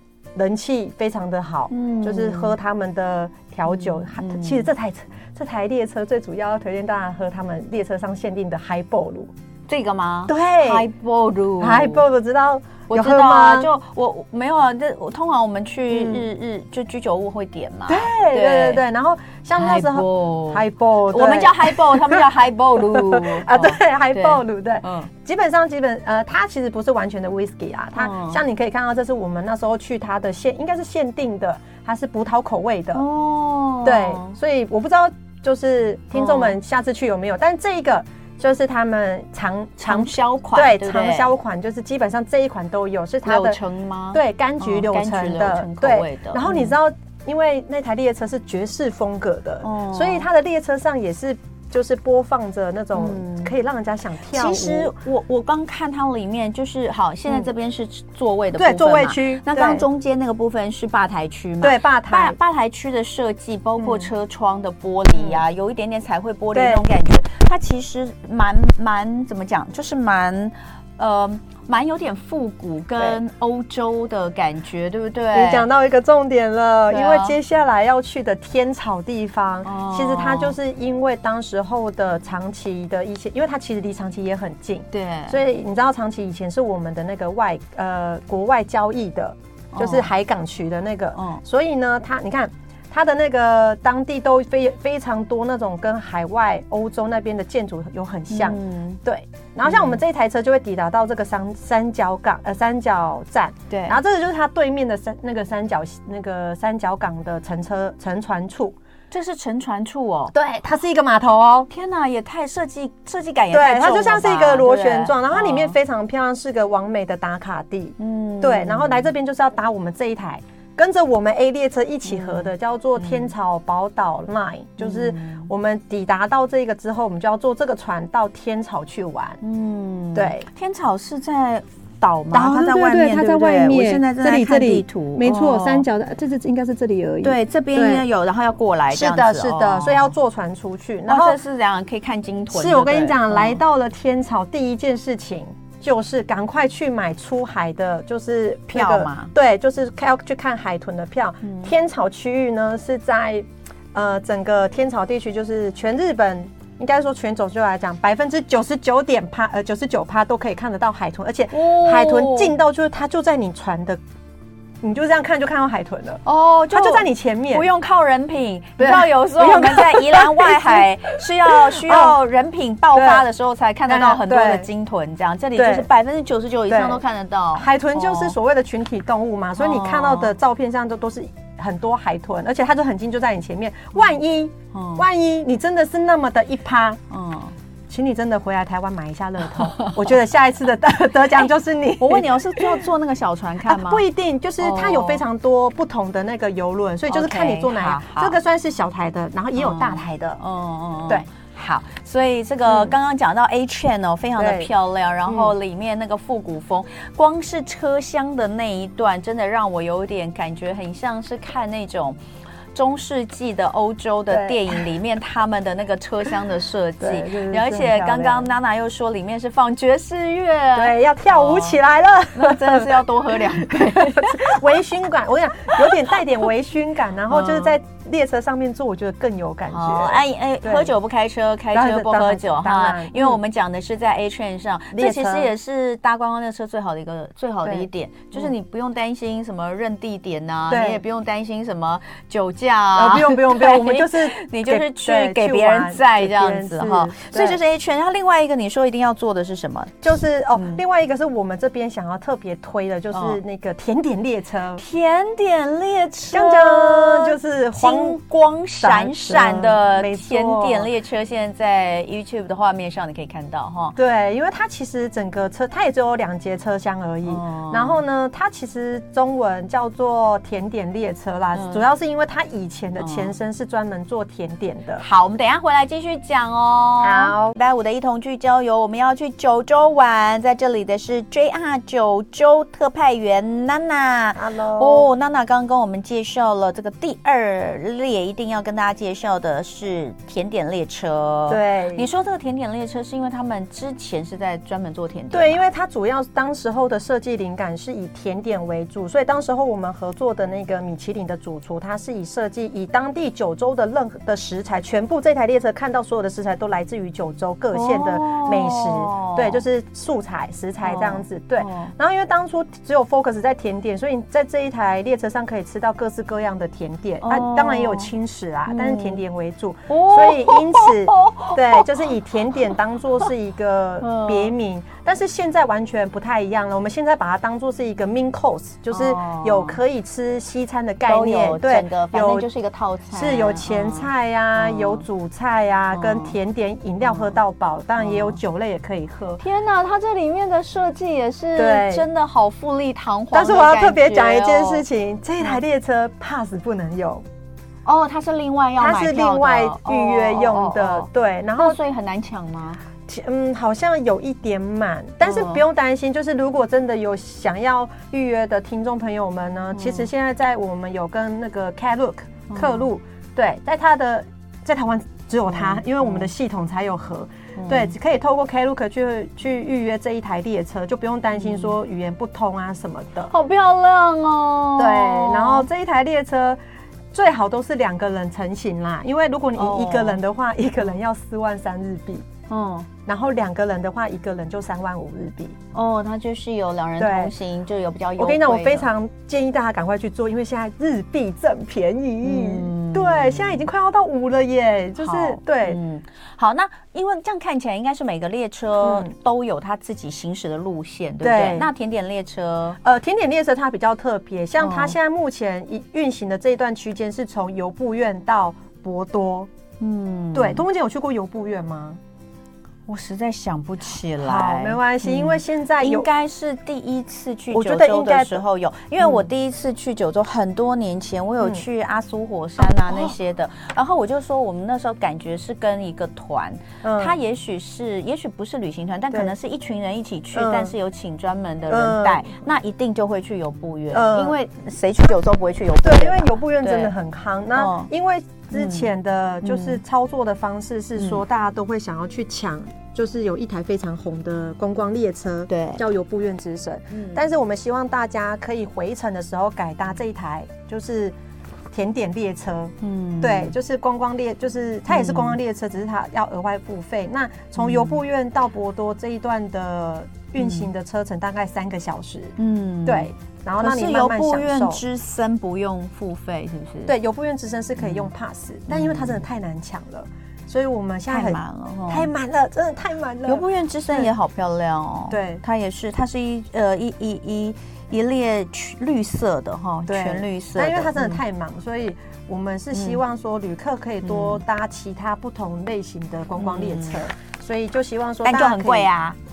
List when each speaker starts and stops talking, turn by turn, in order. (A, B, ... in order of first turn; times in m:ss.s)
0:00.4-0:09.3 A
0:01.7-0:02.6 B
0:03.7-0:04.7 B
0:09.7-0:12.0 B
0:10.3-0:10.9 A
0:11.6-0:13.7 A
0:12.9-0:18.8 B
0:15.9-0:16.3 A
0:17.9-0:22.3 A
0:19.6-0:25.1 B
0:22.8-0:33.0 A
0:28.0-0:28.4 B
0:32.9-0:34.4 B
0:33.8-0:43.6 A
0:36.1-0:36.6 B
0:39.8-0:41.3 B
0:43.2-0:46.8 B
0:44.1-0:54.9 A
0:49.6-0:50.3 B
0:53.0-0:53.5 B
0:54.3-1:15.7 B
0:58.6-0:59.8 A
1:01.6-1:02.4 A
1:03.8-1:04.1 A
1:05.2-1:05.4 A
1:06.5-1:06.9 A
1:15.3-1:48.8 A
1:16.9-1:17.4 B
1:19.6-1:20.6 B
1:24.9-1:25.4 B
1:29.7-1:30.1 B
1:31.2-1:31.4 B
1:38.3-1:39.0 B
1:39.6-1:40.0 B
1:43.7-1:44.0 B
1:49.1-1:50.3 B
1:50.3-1:51.7 A
1:51.7-1:55.8 B
1:53.5-2:09.4 A
1:58.0-1:59.1 B
2:02.1-2:03.3 B
2:04.8-2:05.5 B
2:09.4-2:15.8 B
2:10.2-2:10.5 A
2:12.3-2:18.1 A
2:17.2-2:20.1 B
2:18.9-2:21.4 A
2:21.1-2:23.6 B
2:22.5-2:44.0 A
2:28.7-2:29.3 B
2:31.4-2:31.7 B
2:41.5-2:42.5 B
2:44.8-2:47.7 A
2:46.2-2:58.4 B
2:48.8-2:52.2 A
2:52.9-2:53.3 A
2:53.9-2:54.7 A
2:55.6-2:55.9 A
2:56.7-2:57.0 A
2:57.6-3:07.0 A
2:59.6-3:00.3 B
3:04.7-3:05.0 B
3:07.1-3:07.5 B
3:07.9-3:12.9 A
3:09.6-3:10.0 B
3:12.0-3:14.0 B
3:13.6-3:20.4 A
3:14.6-3:15.2 B
3:17.1-3:18.4 B
3:19.6-3:32.2 B
3:22.7-3:23.0 A
3:24.4-3:24.7 A
3:25.3-3:25.5 A
3:32.7-3:41.8 B
3:34.3-3:34.9 A
3:37.0-3:38.5 A
3:40.8-3:50.9 A
3:42.4-3:44.6 B
3:45.7-3:46.1 B
3:47.3-3:47.7 B
3:49.7-4:10.8 B
3:51.7-3:53.4 A
3:54.9-3:55.5 A
3:57.6-3:58.5 A
4:00.7-4:01.0 A
4:02.9-4:07.6 A
4:10.0-4:14.8 A
4:13.1-4:13.4 B
4:14.8-4:24.0 B
4:16.3-4:18.2 A
4:18.8-4:20.9 A
4:24.0-4:35.0 A
4:27.3-4:28.0 B
4:31.5-4:31.8 B
4:33.0-4:33.3 B
4:35.0-4:55.6 B
4:37.0-4:37.6 A
4:44.4-4:45.1 A
4:51.5-4:52.1 A
4:55.3-5:32.5 A
5:07.7-5:09.6 B
5:10.8-5:11.9 B
5:17.2-5:18.1 B
5:18.7-5:19.2 B
5:19.9-5:22.1 B
5:24.0-5:24.5 B
5:28.9-5:29.8 B
5:31.1-5:35.0 B
5:33.1-5:39.4 A
5:35.9-5:36.4 B
5:37.0-5:37.3 B
5:38.0-5:38.4 B
5:39.4-5:44.8 B
5:41.6-5:42.0 A
5:43.3-5:47.2 A
5:47.8-5:52.8 B
5:48.8-5:51.8 A
5:53.1-6:13.3 A
5:55.2-5:55.6 B
5:59.8-6:00.1 B
6:02.5-6:02.8 B
6:05.5-6:06.3 B
6:07.6-6:07.9 B
6:11.4-6:11.7 B
6:13.3-6:15.7 B
6:14.8-6:16.6 A
6:17.1-6:22.3 A
6:19.6-6:20.2 B
6:22.5-6:22.9 B
6:23.1-6:25.6 A
6:25.7-6:28.9 B
6:27.0-6:27.3 A
6:28.2-6:35.8 A
6:32.2-6:33.6 B
6:35.0-6:42.8 B
6:38.8-6:39.1 A
6:41.2-6:41.7 A
6:42.8-6:49.5 A
6:44.6-6:45.0 B
6:49.8-6:50.6 B
6:50.3-6:52.0 A
6:52.9-7:16.9 B
6:54.2-6:56.1 A
6:57.5-6:58.4 A
6:59.0-6:59.3 A
7:02.6-7:03.2 A
7:06.8-7:07.2 A
7:10.4-7:10.7 A
7:11.7-7:12.3 A
7:13.9-7:14.4 A
7:15.8-7:31.2 A
7:17.6-7:17.9 B
7:18.5-7:18.9 B
7:19.4-7:19.8 B
7:21.0-7:21.2 B
7:25.5-7:25.8 B
7:26.9-7:27.2 B
7:31.7-7:44.8 A
7:32.8-7:33.6 B
7:34.9-7:35.4 B
7:37.6-7:38.0 B
7:40.4-7:40.7 B
7:42.4-7:46.9 B
7:46.9-7:54.1 A
7:47.8-7:48.1 B
7:48.7-7:49.2 B
7:51.1-7:52.1 B
7:53.3-8:01.2 B
7:55.1-7:55.4 A
7:59.9-8:08.9 A
8:02.7-8:03.0 B
8:04.0-8:04.4 B
8:06.4-8:07.0 B
8:08.2-8:09.2 B